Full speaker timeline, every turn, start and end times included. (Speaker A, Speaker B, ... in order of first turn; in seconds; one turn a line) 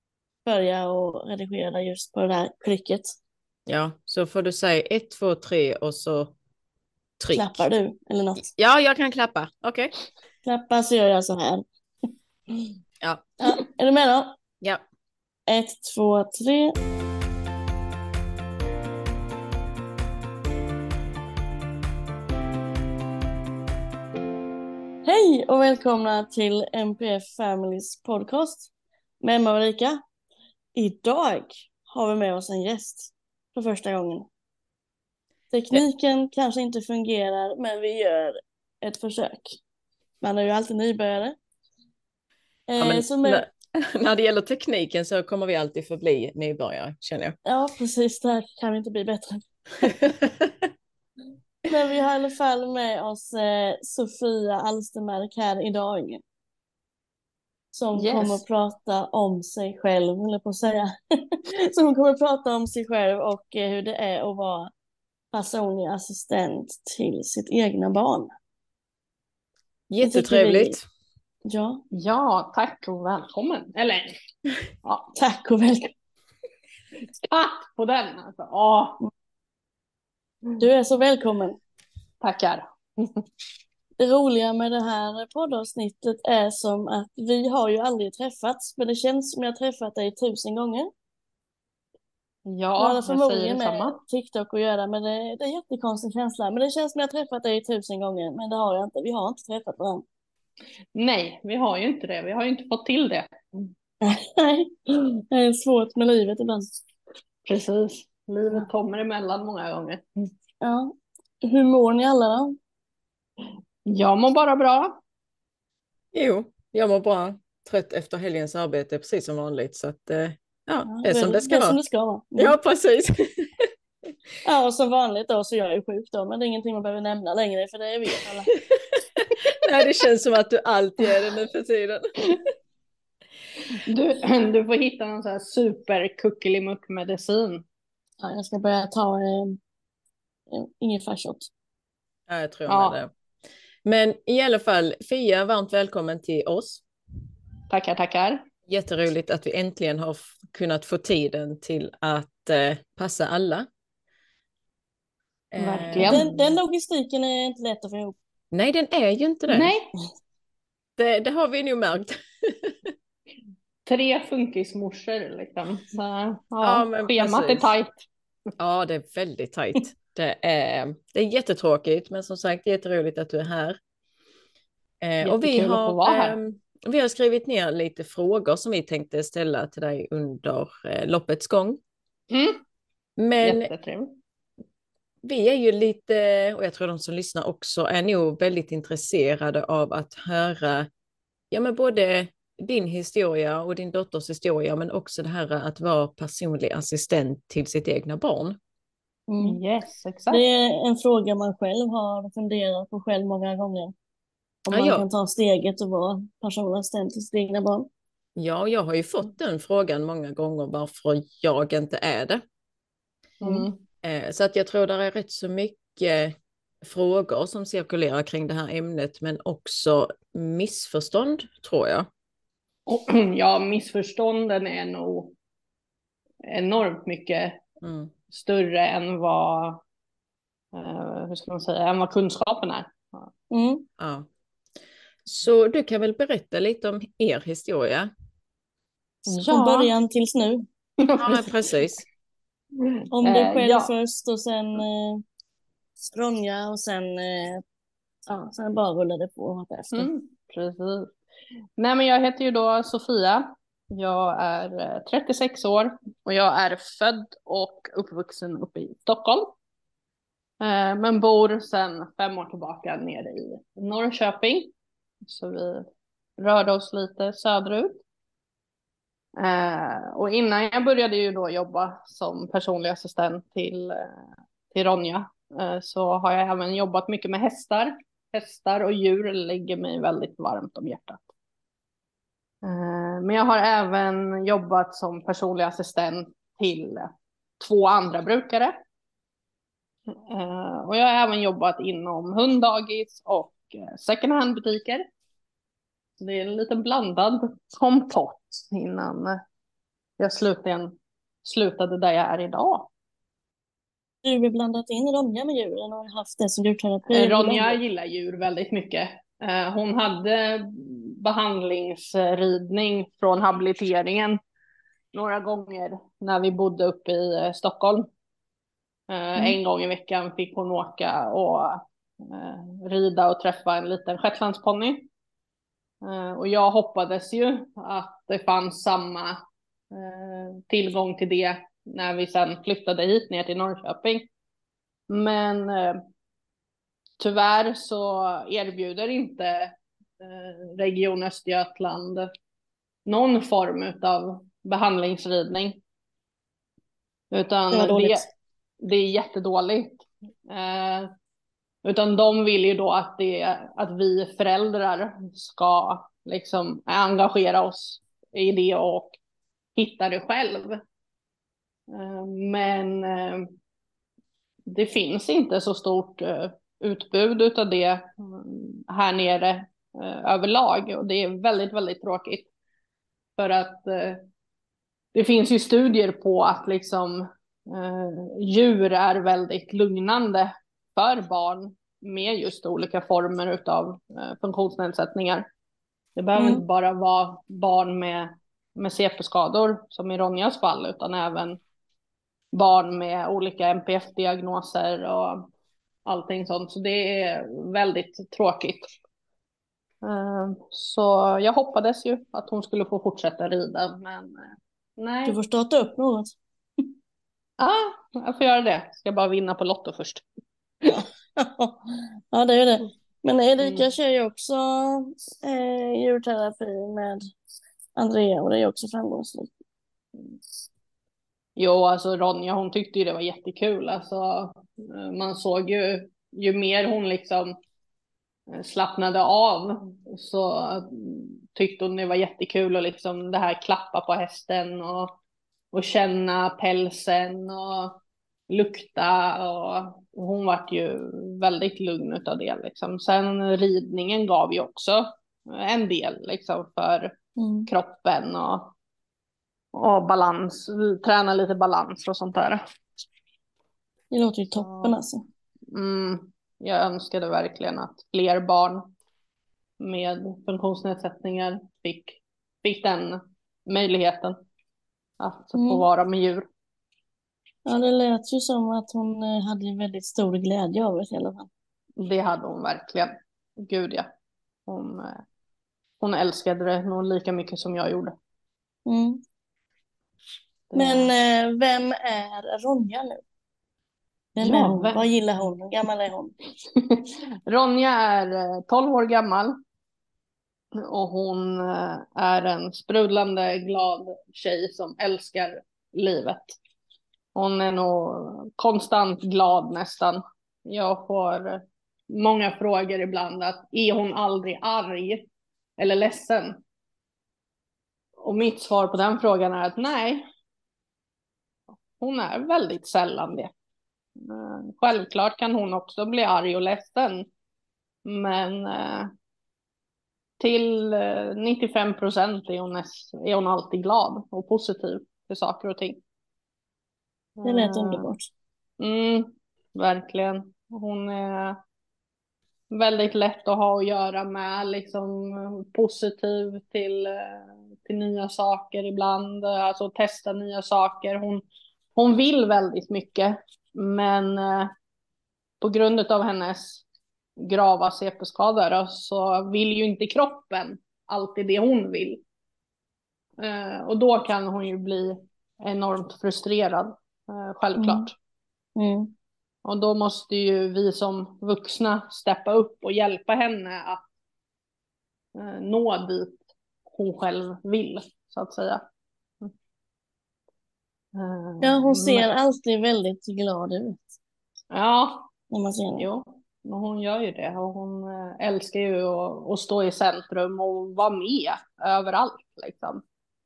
Speaker A: 0.4-3.2
Speaker B: 3.7-6.3
Speaker B: 7.2-7.6
Speaker A: 7.3-8.5
Speaker B: 8.5-9.9
Speaker A: 10.4-11.6
Speaker B: 13.0-13.3
Speaker A: 13.4-14.4
Speaker A: 15.5-16.8
Speaker A: 25.0-30.0
Speaker A: 30.7-34.3
Speaker A: 35.5-39.6
Speaker A: 40.2-41.4
Speaker A: 42.7-43.4
Speaker B: 42.8-47.4
Speaker A: 47.4-49.9
Speaker B: 50.0-50.5
Speaker A: 51.7-56.2
Speaker A: 57.7-64.7
Speaker C: 57.9-58.4
Speaker A: 65.3-68.3
Speaker B: 69.9-70.8
Speaker A: 70.0-70.8
Speaker A: 71.5-71.8
Speaker C: 71.9-74.1
Speaker A: 75.1-75.9
Speaker C: 77.2-79.0
Speaker A: 80.6-81.6
Speaker C: 82.2-83.2
Speaker A: 84.0-90.9
Speaker C: 92.5-94.0
Speaker A: 92.8-100.0
Speaker C: 100.9-103.7
Speaker A: 104.0-106.7
Speaker C: 107.5-110.0
Speaker A: 110.6-112.5
Speaker C: 113.8-115.0
Speaker B: 116.1-121.8
Speaker A: 120.9-122.5
Speaker B: 122.3-123.7
Speaker A: 124.4-128.5
Speaker B: 129.2-132.3
Speaker C: 133.8-137.6
Speaker A: 138.2-139.6
Speaker A: 140.5-141.5
Speaker B: 142.3-143.1
Speaker C: 142.7-143.0
Speaker B: 143.8-146.8
Speaker C: 147.7-148.4
Speaker B: 148.7-153.7
Speaker B: 155.5-156.2
Speaker C: 155.6-156.5
Speaker A: 155.9-158.1
Speaker B: 158.5-159.7
Speaker C: 159.5-159.9
Speaker B: 161.0-162.9
Speaker C: 163.8-168.0
Speaker B: 166.6-167.7
Speaker B: 168.6-173.8
Speaker B: 175.0-181.8
Speaker C: 175.2-176.4
Speaker C: 182.3-182.6
Speaker B: 183.2-183.7
Speaker C: 183.4-184.1
Speaker B: 185.2-190.9
Speaker B: 191.5-198.6
Speaker A: 199.3-199.6
Speaker C: 199.4-200.4
Speaker A: 200.3-203.9
Speaker A: 204.7-207.9
Speaker B: 204.7-205.0
Speaker B: 208.3-212.4
Speaker C: 213.4-213.8
Speaker B: 214.0-222.1
Speaker C: 222.9-225.3
Speaker C: 226.4-227.6
Speaker B: 227.8-228.1
Speaker C: 228.3-229.8
Speaker C: 230.7-233.3
Speaker A: 233.5-233.8
Speaker B: 234.0-234.3
Speaker B: 235.2-238.1
Speaker A: 239.2-240.7
Speaker C: 239.3-239.9
Speaker C: 241.0-241.5
Speaker B: 241.2-242.0
Speaker A: 243.1-245.2
Speaker C: 243.2-243.9
Speaker A: 246.1-247.6
Speaker A: 248.3-250.1
Speaker C: 249.9-251.1
Speaker C: 251.8-259.5
Speaker C: 260.6-264.7
Speaker C: 265.2-265.9
Speaker C: 266.4-268.0
Speaker C: 269.4-274.1
Speaker C: 274.7-281.2
Speaker C: 282.6-288.8
Speaker C: 290.1-295.0
Speaker C: 296.2-299.4
Speaker C: 300.2-302.9
Speaker A: 304.2-307.8
Speaker C: 307.1-314.4
Speaker C: 315.1-318.1
Speaker C: 319.1-325.1
Speaker C: 326.0-329.4
Speaker C: 329.9-334.3
Speaker C: 335.1-336.0
Speaker C: 337.2-342.3
Speaker C: 343.1-345.8
Speaker C: 347.3-348.3
Speaker A: 347.7-348.3
Speaker C: 348.8-351.1
Speaker C: 351.8-359.2
Speaker C: 359.8-360.8
Speaker C: 361.9-363.5
Speaker C: 364.7-372.5
Speaker C: 373.4-374.2
Speaker C: 375.1-385.4
Speaker C: 386.1-391.6
Speaker A: 386.3-386.6
Speaker C: 392.5-395.5
Speaker C: 396.1-398.9
Speaker C: 400.0-405.4
Speaker A: 405.2-406.3
Speaker C: 407.6-410.2
Speaker A: 410.8-417.3
Speaker C: 413.6-413.9
Speaker A: 417.9-419.5
Speaker C: 421.6-427.6
Speaker C: 428.5-435.1
Speaker C: 435.7-437.9
Speaker C: 438.5-447.1
Speaker A: 447.4-447.7
Speaker C: 447.7-448.7
Speaker C: 449.7-452.6
Speaker A: 454.1-455.2
Speaker C: 454.6-455.0
Speaker C: 455.7-458.9
Speaker C: 459.8-464.4
Speaker C: 465.2-466.5
Speaker A: 465.5-465.8
Speaker A: 467.6-471.5
Speaker C: 472.0-474.1
Speaker C: 474.7-475.2
Speaker C: 476.0-478.1
Speaker A: 478.9-479.2
Speaker C: 480.7-481.1
Speaker A: 480.7-483.2
Speaker A: 484.4-486.3
Speaker C: 484.4-485.1
Speaker C: 486.7-489.6
Speaker C: 490.7-496.6
Speaker C: 497.3-505.2
Speaker C: 505.8-506.6
Speaker C: 508.2-510.3
Speaker C: 511.9-513.5
Speaker C: 514.2-517.3
Speaker C: 518.0-519.1
Speaker C: 520.4-526.0
Speaker C: 527.4-528.1
Speaker A: 527.4-528.3
Speaker C: 528.8-531.6
Speaker C: 532.7-541.4
Speaker C: 542.0-544.7
Speaker C: 545.6-546.8
Speaker C: 547.4-552.2
Speaker C: 553.4-558.1
Speaker A: 557.8-558.1
Speaker A: 558.8-559.1
Speaker C: 559.6-564.0
Speaker C: 565.3-566.4
Speaker C: 566.9-568.8
Speaker C: 571.1-572.3
Speaker A: 571.6-574.0
Speaker C: 574.7-575.3
Speaker A: 575.5-576.1
Speaker C: 576.0-583.0